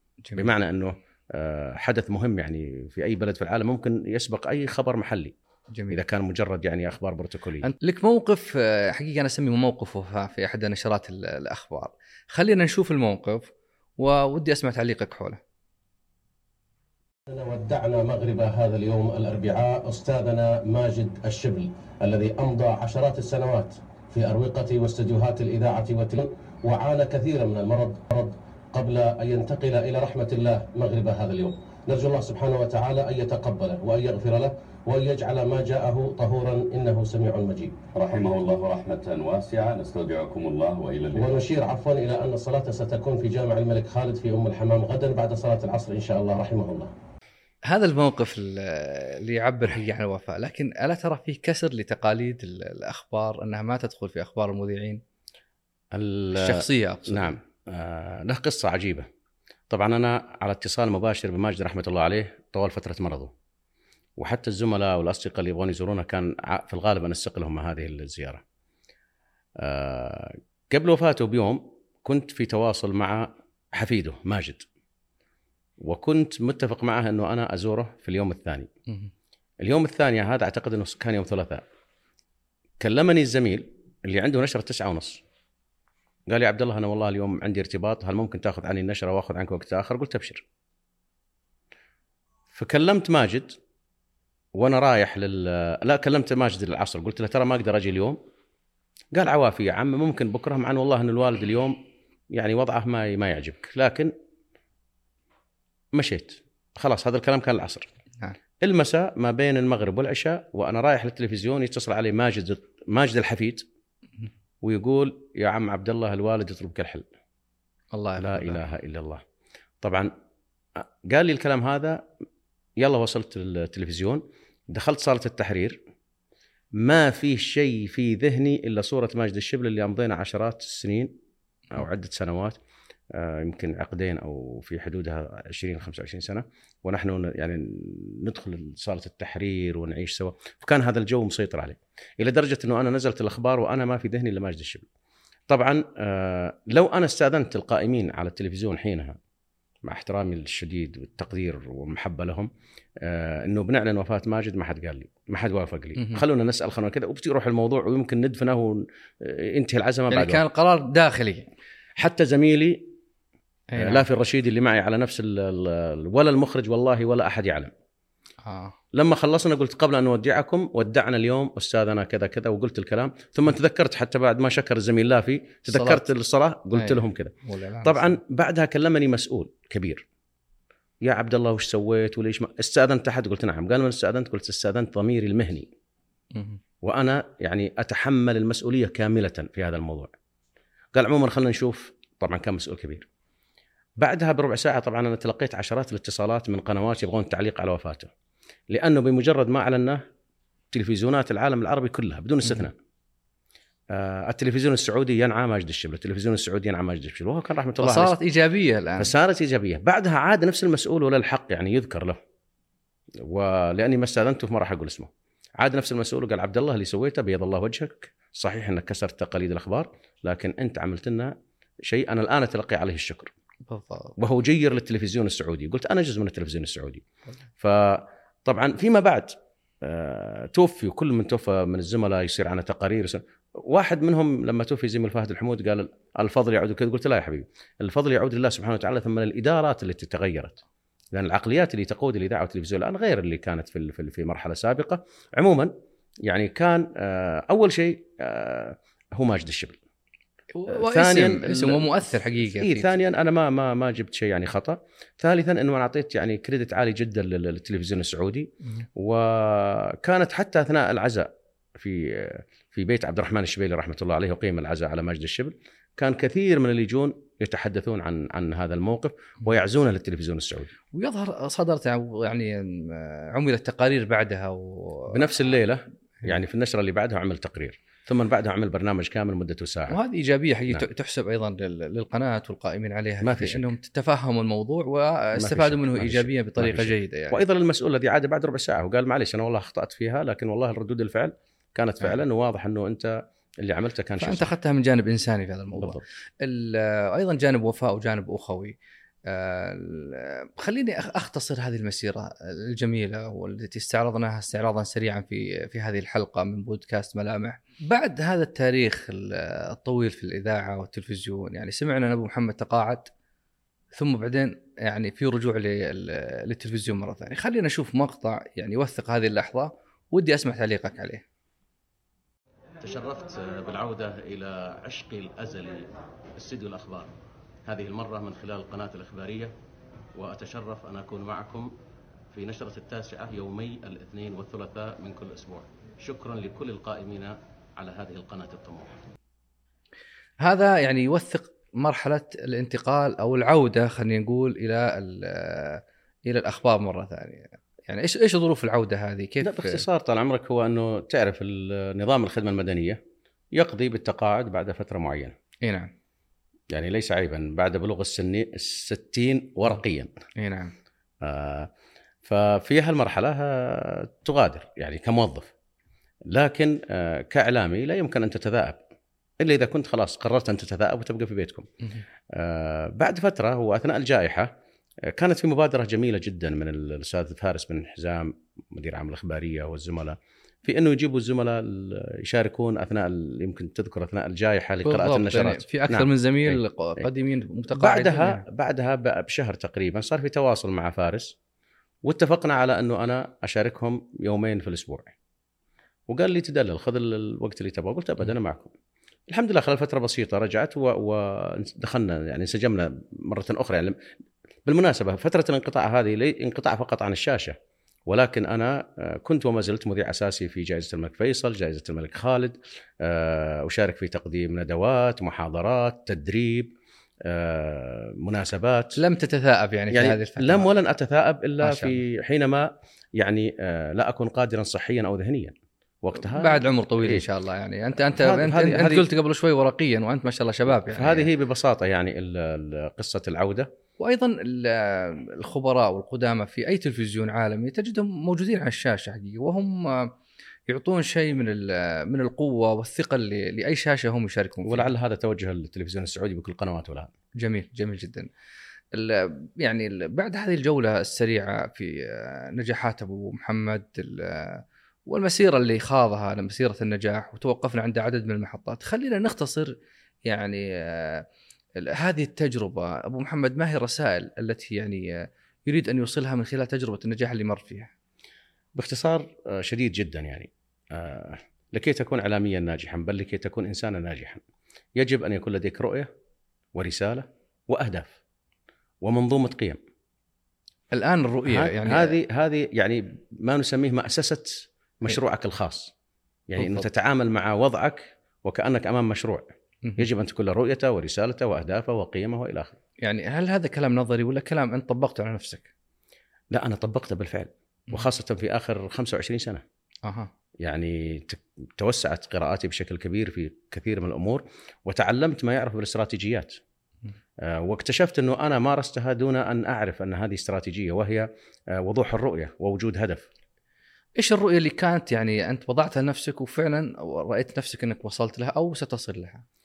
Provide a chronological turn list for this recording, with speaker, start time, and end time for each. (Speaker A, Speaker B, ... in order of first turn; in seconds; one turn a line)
Speaker A: 0.4-5.3
Speaker B: 5.7-6.0
Speaker A: 5.9-7.7
Speaker B: 7.6-15.4
Speaker C: 17.3-38.0
Speaker D: 37.9-41.3
Speaker C: 41.1-46.9
Speaker B: 47.7-55.0
Speaker A: 55.9-59.1
Speaker B: 56.4-57.4
Speaker A: 59.7-63.3
Speaker A: 64.2-68.4
Speaker A: 69.6-74.7
Speaker A: 75.8-78.7
Speaker A: 79.6-81.7
Speaker A: 82.8-85.2
Speaker A: 86.3-90.4
Speaker A: 92.5-93.5
Speaker A: 94.6-98.2
Speaker A: 99.1-101.8
Speaker A: 102.3-104.1
Speaker A: 105.9-107.9
Speaker A: 108.6-113.6
Speaker A: 114.6-117.1
Speaker B: 117.9-118.6
Speaker A: 118.2-119.2
Speaker A: 119.8-120.1
Speaker A: 121.1-122.0
Speaker A: 122.8-125.8
Speaker A: 126.8-131.1
Speaker A: 131.7-132.6
Speaker A: 133.1-144.8
Speaker A: 145.5-149.2
Speaker A: 149.8-152.5
Speaker A: 153.0-160.4
Speaker B: 156.0-156.2
Speaker B: 160.1-161.5
Speaker A: 162.0-162.8
Speaker B: 163.7-164.1
Speaker A: 163.8-167.7
Speaker B: 168.4-168.8
Speaker A: 168.9-177.3
Speaker B: 175.7-176.0
Speaker B: 176.7-178.2
Speaker A: 177.8-180.0
Speaker A: 181.0-185.7
Speaker B: 186.3-186.6
Speaker A: 186.8-190.1
Speaker A: 190.9-193.1
Speaker A: 194.0-198.1
Speaker A: 198.7-200.0
Speaker A: 200.7-202.8
Speaker A: 203.9-208.2
Speaker B: 207.8-209.1
Speaker A: 209.0-212.2
Speaker A: 213.2-223.3
Speaker B: 223.7-224.2
Speaker A: 224.2-227.0
Speaker A: 227.6-240.6
Speaker A: 241.1-245.7
Speaker A: 246.3-249.8
Speaker B: 250.5-252.9
Speaker A: 250.7-270.7
Speaker B: 270.9-275.3
Speaker A: 275.1-280.0
Speaker B: 279.9-287.4
Speaker A: 283.2-283.7
Speaker A: 285.4-294.5
Speaker B: 294.2-298.8
Speaker A: 295.8-296.0
Speaker B: 299.3-313.1
Speaker B: 313.9-321.2
Speaker A: 322.8-327.1
Speaker A: 327.7-329.5
Speaker A: 330.1-331.7
Speaker A: 332.3-339.1
Speaker B: 340.4-349.8
Speaker A: 349.4-353.0
Speaker A: 353.6-355.4
Speaker B: 355.6-355.9
Speaker A: 356.7-360.1
Speaker B: 360.4-360.8
Speaker A: 361.2-361.7
Speaker A: 362.2-365.5
Speaker A: 366.3-368.8
Speaker A: 369.4-371.7
Speaker A: 372.3-374.5
Speaker A: 375.1-386.6
Speaker B: 384.9-388.4
Speaker A: 387.7-391.3
Speaker A: 392.1-395.1
Speaker A: 396.1-398.7
Speaker A: 399.3-403.9
Speaker A: 404.7-407.6
Speaker A: 408.1-416.7
Speaker A: 417.2-419.0
Speaker B: 419.0-420.7
Speaker A: 419.9-427.2
Speaker B: 421.6-421.9
Speaker B: 426.2-431.3
Speaker A: 428.2-429.1
Speaker A: 430.9-433.7
Speaker B: 434.0-440.1
Speaker B: 440.7-444.9
Speaker A: 444.6-447.1
Speaker B: 447.4-448.3
Speaker B: 448.9-461.3
Speaker B: 461.8-467.9
Speaker A: 468.8-474.4
Speaker A: 475.0-476.1
Speaker A: 476.8-478.1
Speaker A: 479.0-479.8
Speaker B: 480.9-482.2
Speaker A: 481.5-485.9
Speaker A: 486.5-492.8
Speaker B: 486.6-486.9
Speaker B: 493.0-495.7
Speaker A: 496.5-499.6
Speaker B: 500.1-500.3
Speaker A: 500.6-506.6
Speaker A: 507.4-513.3
Speaker B: 514.2-519.4